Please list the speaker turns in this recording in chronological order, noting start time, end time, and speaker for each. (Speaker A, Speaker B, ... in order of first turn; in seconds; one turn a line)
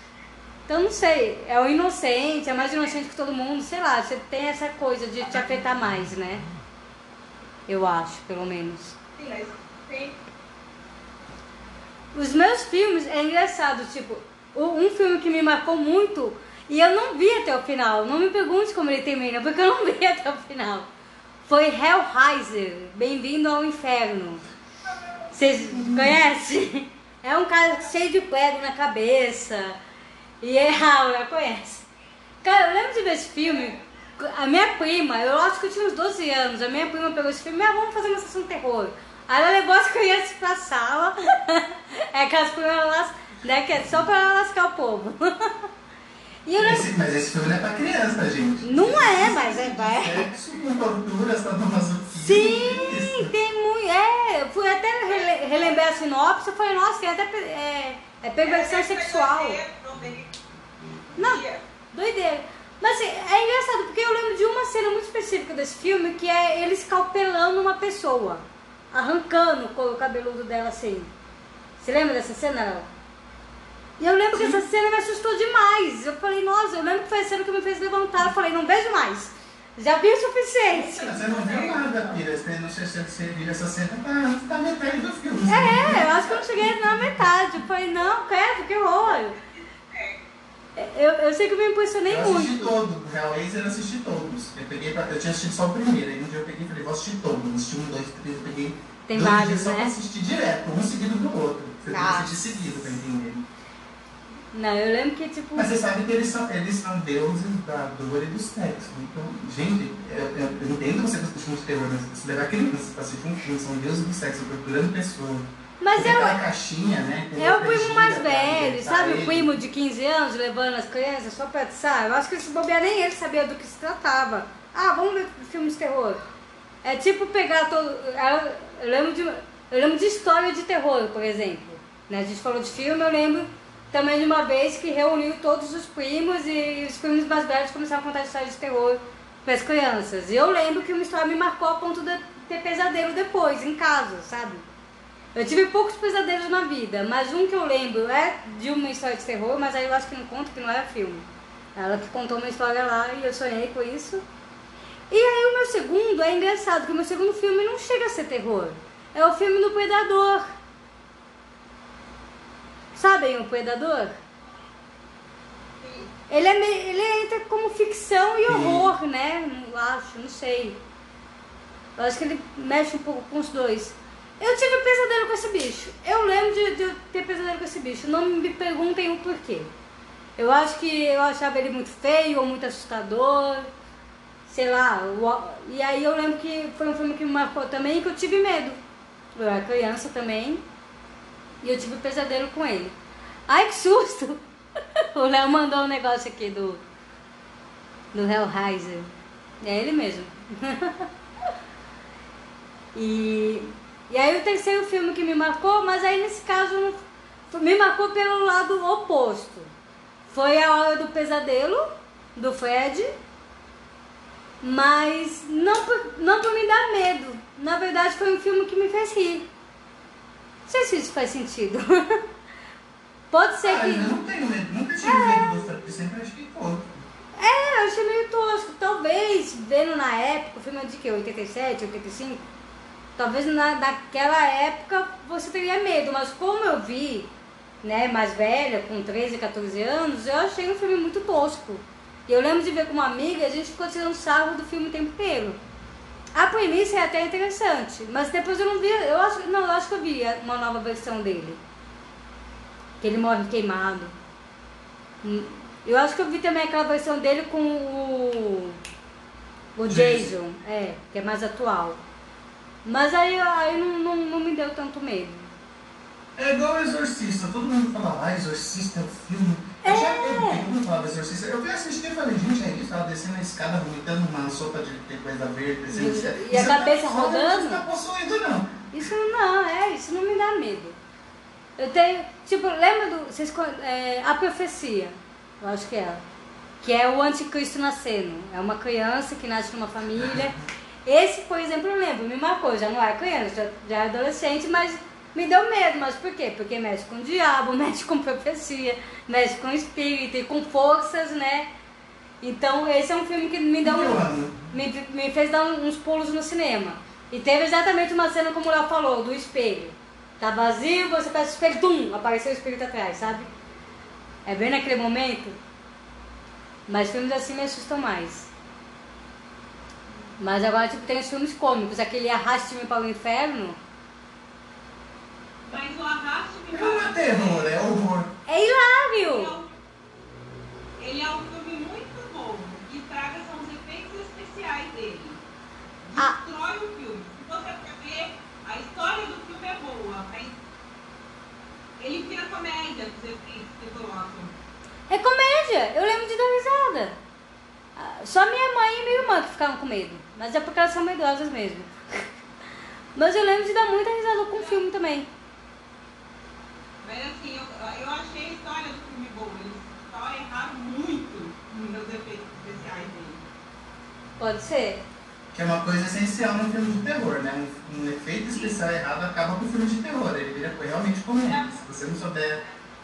Speaker A: 0.7-6.4
Speaker A: 7.7-8.9
Speaker B: 9.2-10.2
Speaker A: 12.1-20.9
Speaker A: 21.4-24.4
Speaker C: 25.2-26.2
Speaker A: 25.3-29.8
Speaker A: 30.4-31.9
Speaker A: 32.4-45.6
Speaker A: 46.5-46.8
Speaker C: 46.6-53.3
Speaker A: 48.6-50.3
Speaker A: 52.2-59.6
Speaker B: 54.9-56.0
Speaker B: 58.4-60.3
Speaker B: 61.1-61.6
Speaker A: 61.2-71.1
Speaker A: 71.8-72.9
Speaker A: 74.0-81.8
Speaker C: 74.3-74.6
Speaker C: 80.7-87.3
Speaker B: 81.3-82.2
Speaker A: 85.5-89.3
Speaker B: 88.8-90.2
Speaker A: 90.8-92.7
Speaker C: 92.1-103.5
Speaker A: 99.0-99.9
Speaker A: 101.8-102.3
Speaker A: 104.5-105.7
Speaker C: 105.5-119.6
Speaker A: 115.8-116.4
Speaker A: 117.4-126.2
Speaker A: 126.8-144.7
Speaker A: 145.3-154.2
Speaker A: 155.1-160.4
Speaker A: 162.9-164.1
Speaker B: 165.8-166.1
Speaker A: 166.3-170.8
Speaker C: 168.5-168.9
Speaker A: 172.0-179.7
Speaker A: 180.4-183.7
Speaker A: 184.5-188.8
Speaker A: 189.3-190.6
Speaker A: 191.6-192.9
Speaker A: 193.5-194.4
Speaker A: 195.1-196.8
Speaker A: 198.1-201.1
Speaker A: 202.9-209.7
Speaker A: 210.3-213.1
Speaker A: 214.6-219.5
Speaker A: 220.7-222.2
Speaker A: 223.3-224.1
Speaker C: 223.6-227.1
Speaker A: 225.0-225.6
Speaker A: 227.4-232.4
Speaker A: 233.2-237.3
Speaker A: 237.8-245.6
Speaker A: 246.3-251.6
Speaker A: 253.0-254.1
Speaker A: 255.2-258.8
Speaker A: 259.8-262.0
Speaker C: 259.9-260.3
Speaker A: 262.8-265.5
Speaker C: 266.4-279.1
Speaker A: 269.8-270.6
Speaker A: 275.9-277.8
Speaker A: 278.9-281.0
Speaker A: 281.8-286.2
Speaker A: 286.8-290.5
Speaker C: 290.1-290.7
Speaker A: 291.1-301.7
Speaker A: 302.4-313.5
Speaker C: 303.8-304.6
Speaker A: 314.4-315.6
Speaker A: 316.9-318.5
Speaker A: 320.4-323.8
Speaker B: 325.6-327.7
Speaker C: 326.7-328.3
Speaker A: 328.5-329.5
Speaker B: 329.2-329.7
Speaker B: 331.0-335.4
Speaker B: 336.0-340.6
Speaker B: 342.0-344.6
Speaker A: 345.1-347.2
Speaker A: 347.9-352.3
Speaker A: 353.1-355.3
Speaker B: 354.5-354.8
Speaker B: 357.0-363.4
Speaker A: 364.4-365.0
Speaker C: 365.5-372.6
Speaker B: 371.4-372.0